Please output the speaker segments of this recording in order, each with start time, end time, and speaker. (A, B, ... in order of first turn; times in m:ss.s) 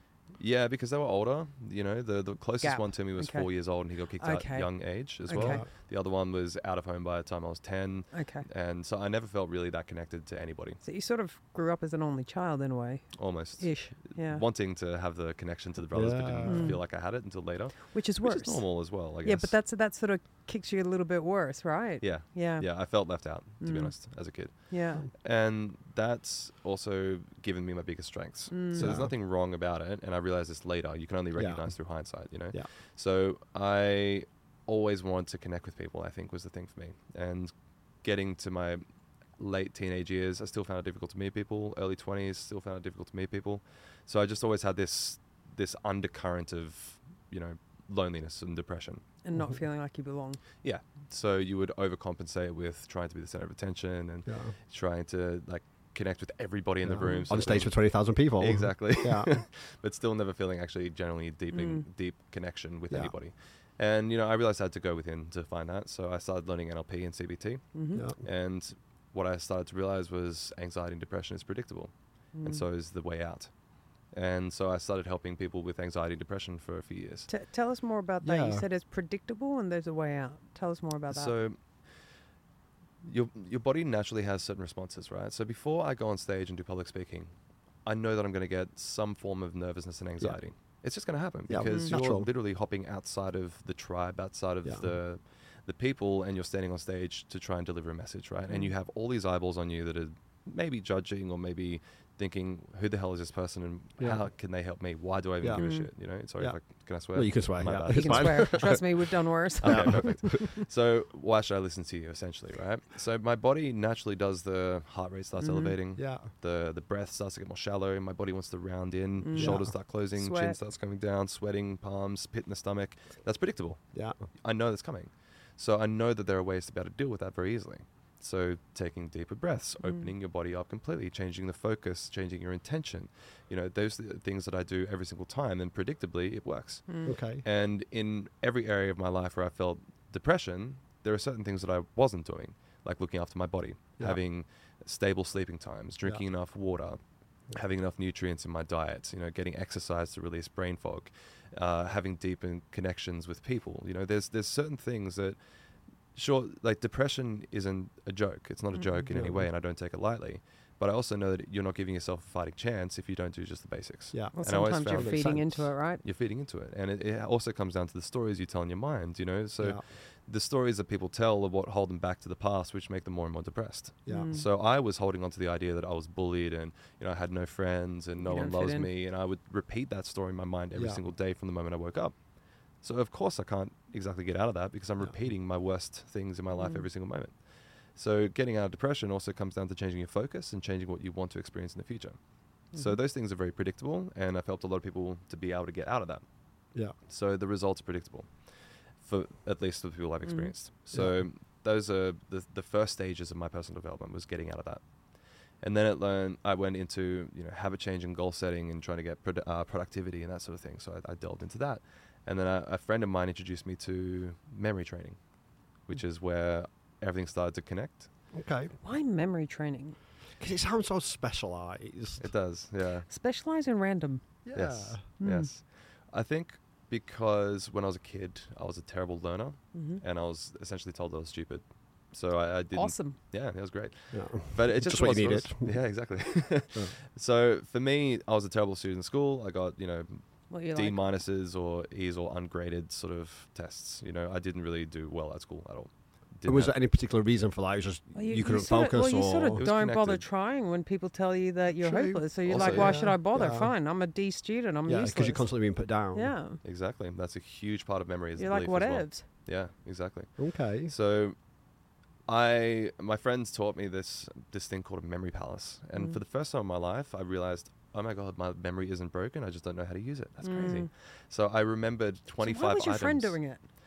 0:00.4-0:10.8 A
0:02.6-0:03.5 B
0:04.2-0:05.6 B
0:05.4-0:05.7 C
0:08.1-0:08.4 B
0:10.8-0:14.4 B
0:13.2-0:19.6 A
0:15.9-0:16.8 C
0:16.4-0:16.8 B
0:17.9-0:22.7 B
0:22.0-0:38.8 A
0:23.6-0:25.0 B
0:28.5-0:29.0 B
0:28.8-0:29.2 C
0:31.4-0:31.8 C
0:39.4-0:49.0 A
0:49.2-0:50.4 B
0:50.6-1:11.9 A
0:54.3-0:54.5 C
0:56.8-0:59.3 C
1:01.5-1:01.8 B
1:07.7-1:08.0 B
1:08.0-1:08.2 C
1:12.3-1:12.6 B
1:12.4-1:13.5 A
1:14.1-1:17.3 A
1:17.3-1:21.3 B
1:18.2-1:18.6 C
1:21.1-1:21.6 A
1:23.0-1:27.3 A
1:27.8-1:48.8 A
1:31.5-1:32.3 C
1:31.6-1:32.0 B
1:34.6-1:34.9 C
1:44.0-1:44.3 C
1:45.4-1:45.7 C
1:45.5-1:45.9 B
1:47.1-1:49.1 C
1:47.9-1:50.5 B
1:49.6-1:50.4 C
1:49.6-2:27.0 A
1:55.4-1:55.8 B
1:56.0-1:56.3 C
1:59.2-2:00.6 B
1:59.4-1:59.7 C
2:09.8-2:10.1 B
2:16.9-2:17.2 B
2:17.0-2:17.4 C
2:27.5-2:35.4 A
2:36.2-3:02.2 A
2:38.7-2:39.0 B
2:39.1-2:39.5 C
2:44.1-2:45.6 C
2:44.3-2:46.0 B
2:54.1-2:54.5 B
2:58.2-2:58.9 B
3:02.8-3:12.2 A
3:06.6-3:06.8 B
3:12.7-3:16.2 A
3:17.1-3:18.3 A
3:19.0-3:24.8 A
3:20.2-3:20.5 B
3:20.9-3:21.2 C
3:25.6-3:35.2 A
3:35.9-3:38.1 A
3:38.3-3:38.7 C
3:38.8-3:40.0 B
3:40.4-3:42.3 C
3:42.2-3:43.1 A
3:43.1-3:44.2 B
3:44.4-3:45.0 C
3:44.5-4:06.8 A
3:45.2-3:45.5 B
3:49.7-3:50.0 B
3:52.7-3:53.2 B
3:54.1-3:55.7 C
4:00.5-4:01.0 B
4:06.5-4:09.6 C
4:08.1-4:15.5 B
4:09.6-4:10.2 A
4:11.8-4:13.7 C
4:12.5-4:13.1 A
4:14.9-4:16.3 C
4:16.1-4:16.6 B
4:16.6-4:21.4 A
4:18.4-4:19.3 B
4:20.4-4:20.9 C
4:22.3-4:33.4 A
4:30.4-4:30.9 B
4:32.4-4:33.6 B